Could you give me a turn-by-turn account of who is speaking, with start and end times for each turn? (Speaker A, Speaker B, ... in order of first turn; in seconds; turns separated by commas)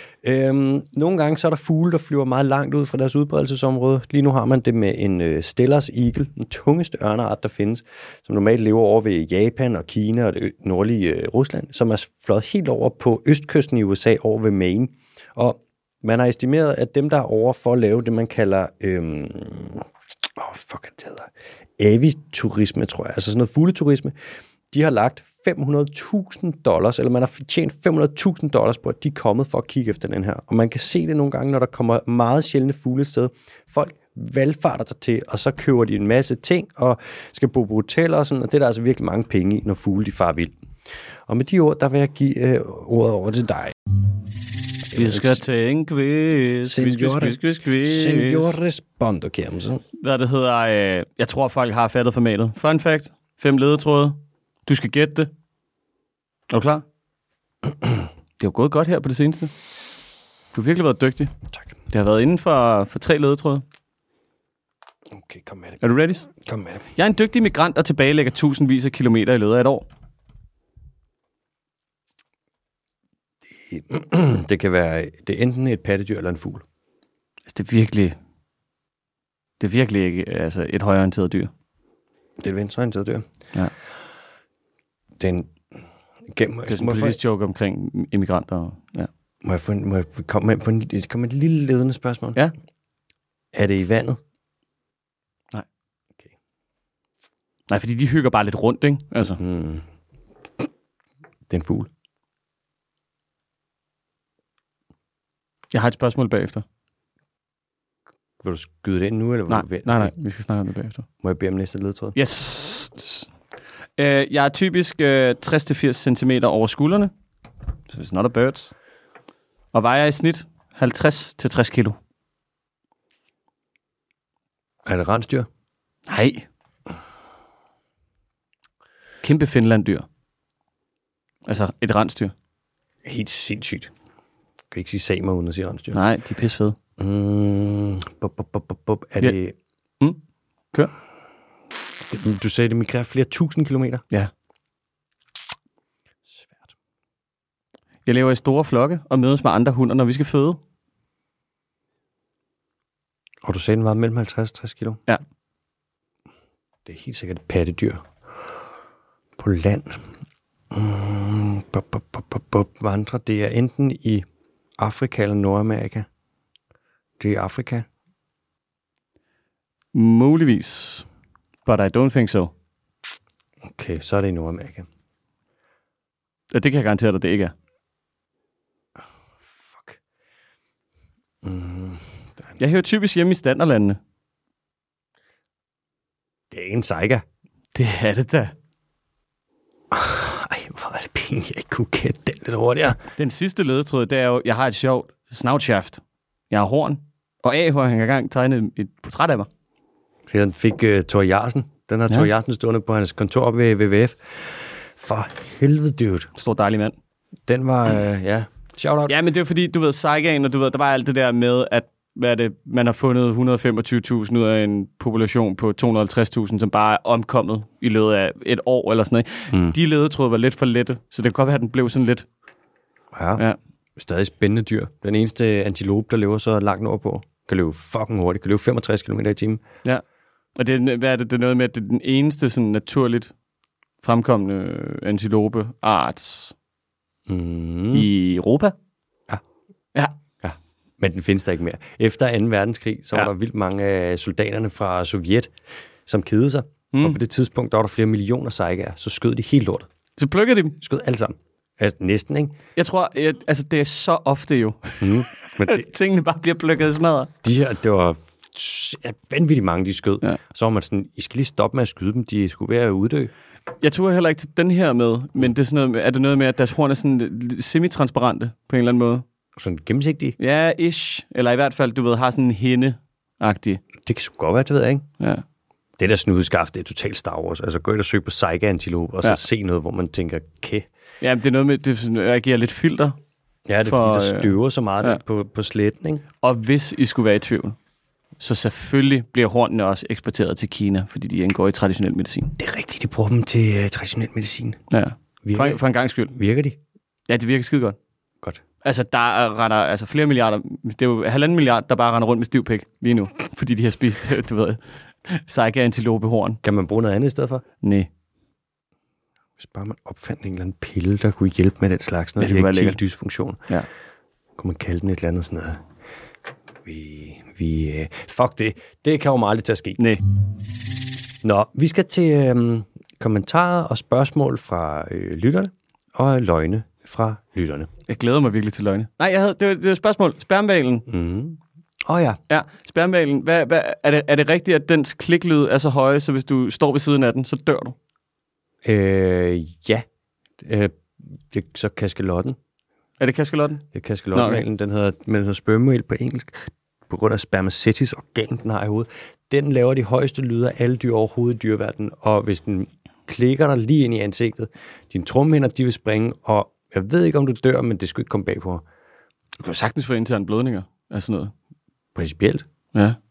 Speaker A: 0.2-24.1, Speaker A: 24.7-40.5, Speaker A: 41.3-43.8, Speaker A: 44.9-45.4, Speaker B: 44.9-48.6, Speaker A: 46.6-49.8, Speaker B: 50.0-55.3, Speaker B: 56.5-56.8, Speaker B: 58.4-59.5, Speaker B: 60.5-61.3, Speaker B: 61.9-63.6, Speaker A: 65.1-65.8, Speaker B: 65.8-66.3, Speaker A: 66.4-66.8, Speaker B: 67.0-69.8, Speaker A: 73.6-76.6, Speaker B: 77.5-78.2, Speaker B: 79.6-81.5, Speaker A: 82.4-83.2, Speaker A: 85.2-85.5, Speaker A: 86.3-87.2, Speaker B: 86.7-89.1, Speaker A: 89.4-92.4, Speaker A: 93.5-94.2, Speaker B: 97.7-99.4, Speaker A: 99.4-99.8, Speaker A: 101.5-101.9, Speaker B: 105.7-106.6, Speaker A: 108.4-110.1, Speaker B: 109.5-111.0, Speaker A: 111.2-112.2, Speaker B: 112.2-113.3, Speaker B: 114.0-117.1, Speaker B: 117.9-118.7, Speaker B: 119.7-122.0, Speaker A: 124.8-125.5, Speaker B: 126.1-126.5, Speaker B: 129.2-130.1, Speaker B: 131.4-132.3, Speaker A: 133.0-133.9, Speaker A: 134.7-136.0, Speaker B: 135.9-136.8, Speaker A: 137.0-139.6, Speaker A: 142.0-144.0, Speaker A: 146.3-146.7, Speaker B: 148.1-150.6, Speaker A: 153.4-155.0, Speaker A: 156.8-158.0, Speaker A: 159.4-160.0, Speaker A: 160.7-164.2, Speaker A: 164.8-166.1, Speaker A: 167.2-167.8, Speaker B: 169.9-171.1, Speaker B: 171.6-172.5, Speaker A: 173.6-174.9, Speaker B: 176.5-177.5, Speaker A: 179.5-180.0, Speaker A: 181.4-182.6, Speaker B: 182.6-184.0, Speaker A: 186.5-187.2, Speaker B: 187.7-188.5, Speaker A: 189.9-193.0, Speaker B: 193.2-199.5, Speaker A: 200.3-204.2, Speaker A: 205.0-206.3, Speaker B: 206.3-206.9, Speaker A: 207.5-209.2, Speaker B: 209.1-222.2, Speaker A: 223.1-223.4, Speaker A: 224.0-229.6, Speaker B: 230.6-233.3, Speaker B: 234.0-236.5, Speaker A: 237.3-238.1, Speaker B: 237.9-238.7, Speaker A: 240.4-245.5, Speaker A: 246.1-249.9, Speaker B: 246.9-247.2, Speaker B: 250.2-250.8, Speaker A: 250.8-252.6, Speaker B: 252.8-257.3, Speaker A: 255.0-255.8, Speaker A: 257.4-263.3, Speaker B: 263.8-269.2, Speaker A: 269.6-270.4, Speaker B: 270.4-273.8, Speaker A: 274.0-275.1, Speaker A: 276.0-280.9, Speaker B: 281.2-283.1, Speaker A: 283.7-286.2, Speaker B: 283.8-285.2, Speaker B: 286.4-287.8, Speaker B: 288.4-292.5, Speaker A: 292.6-294.8, Speaker B: 294.9-296.3, Speaker A: 295.4-296.8, Speaker B: 297.3-298.0, Speaker B: 298.8-306.6, Speaker A: 306.6-307.6, Speaker B: 307.8-308.1, Speaker A: 309.6-313.7, Speaker B: 312.4-313.0, Speaker A: 314.6-315.8, Speaker A: 316.8-320.0, Speaker A: 321.4-327.9, Speaker B: 328.1-331.1, Speaker A: 331.1-332.4, Speaker B: 332.5-337.9, Speaker A: 338.8-340.1, Speaker A: 340.6-342.6, Speaker B: 343.2-344.6, Speaker A: 343.9-346.6, Speaker A: 347.1-358.8, Speaker B: 359.6-361.5, Speaker A: 362.1-362.6